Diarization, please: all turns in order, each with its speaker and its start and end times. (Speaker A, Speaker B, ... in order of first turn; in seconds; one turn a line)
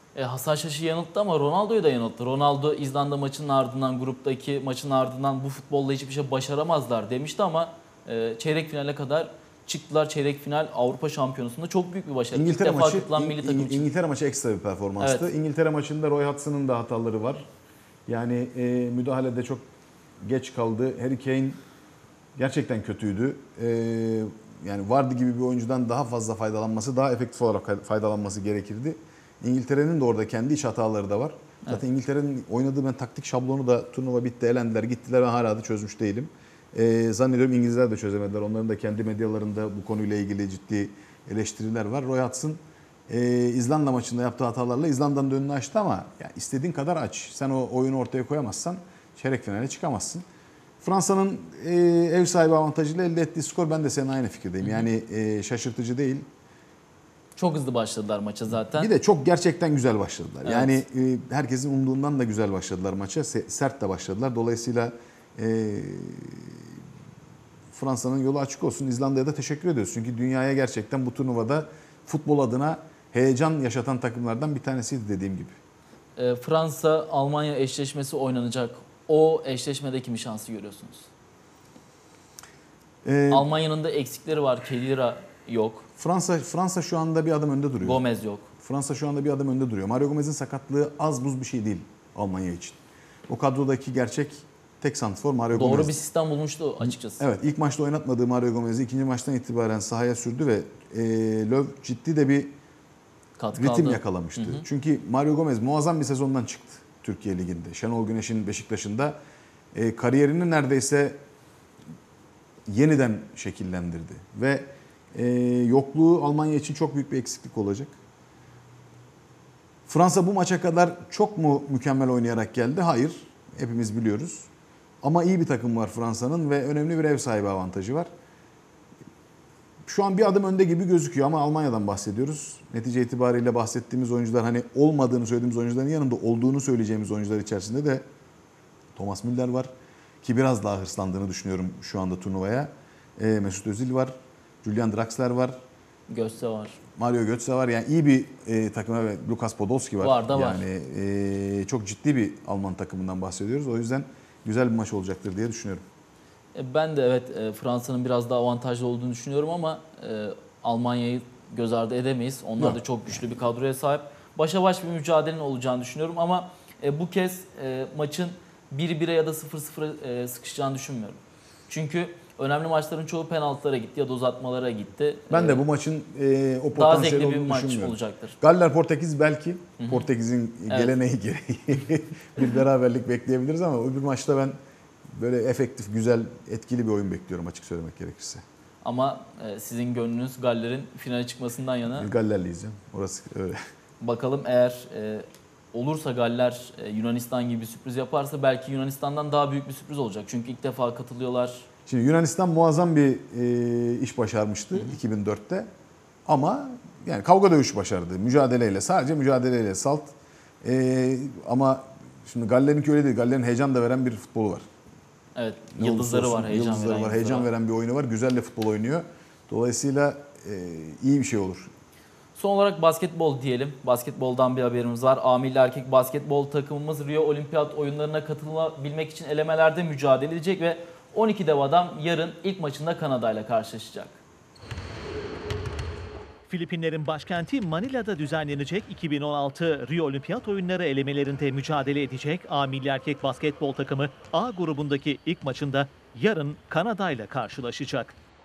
Speaker A: 0.1-13.9
Speaker B: 12.3-17.5
Speaker A: 15.0-15.3
Speaker B: 18.1-19.7
Speaker B: 20.2-21.6
Speaker B: 22.4-50.2
Speaker B: 50.8-56.3
Speaker A: 57.4-58.9
Speaker B: 58.7-66.7
Speaker A: 60.5-60.8
Speaker B: 67.7-75.6
Speaker A: 76.2-81.1
Speaker B: 83.0-83.5
Speaker A: 83.3-85.9
Speaker B: 86.0-88.0
Speaker A: 87.8-88.5
Speaker B: 88.6-96.0
Speaker A: 95.5-97.2
Speaker B: 96.8-102.6
Speaker A: 103.4-104.6
Speaker B: 103.6-109.2
Speaker B: 109.7-111.2
Speaker B: 112.7-118.0
Speaker B: 119.9-124.5
Speaker B: 125.0-128.1
Speaker B: 129.8-138.1
Speaker B: 138.9-145.6
Speaker A: 146.1-146.8
Speaker B: 146.9-155.8
Speaker A: 150.0-150.6
Speaker A: 156.5-175.6
Speaker B: 175.3-184.6
Speaker A: 176.7-178.4
Speaker A: 179.8-180.1
Speaker A: 180.7-180.9
Speaker B: 185.1-188.4
Speaker A: 188.8-192.1
Speaker B: 191.9-193.6
Speaker A: 194.0-201.7
Speaker B: 201.9-205.7
Speaker B: 206.3-214.7
Speaker A: 215.4-217.5
Speaker B: 215.8-221.7
Speaker A: 222.3-234.2
Speaker C: 236.5-248.2